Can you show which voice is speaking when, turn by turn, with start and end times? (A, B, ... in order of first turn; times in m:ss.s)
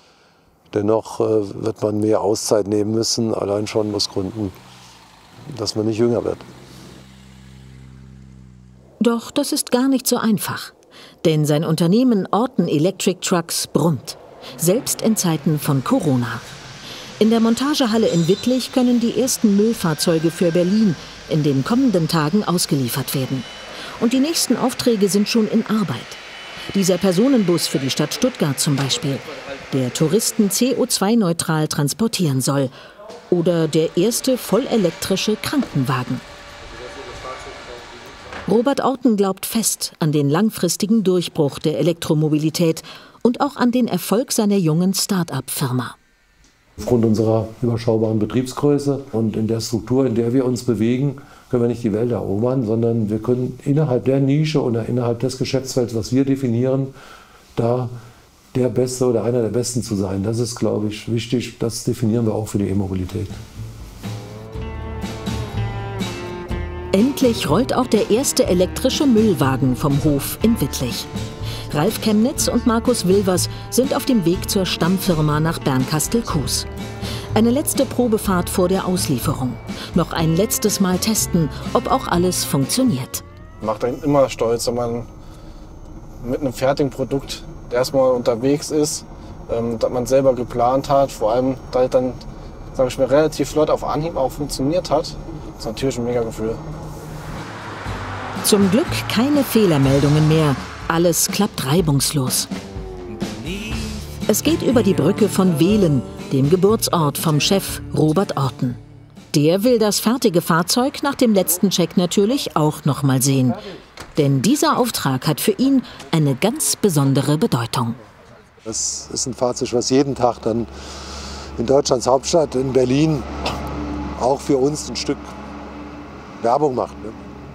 0:00.7-0:04.6 A
0:05.5-0:06.4 A
0:09.0-0:16.5 B
0:17.2-0:23.5 B
0:24.0-0:26.2 B
0:26.7-0:32.8 B
0:33.3-0:36.2 B
0:38.5-0:46.0 B
0:46.8-0:56.9 A
0:57.6-0:58.0 A
0:58.5-1:03.4 A
1:06.9-1:11.1 B
1:11.7-1:16.7 B
1:17.4-1:23.2 B
1:23.6-1:25.1 C
1:26.2-1:32.2 C
1:32.8-1:36.6 C
1:38.4-1:42.5 B
1:44.3-1:48.8 B
1:49.3-1:53.6 B
1:54.2-1:58.0 B
1:58.6-2:00.7 A
2:01.6-2:03.3 A
2:04.2-2:05.3 A
2:06.4-2:07.2 A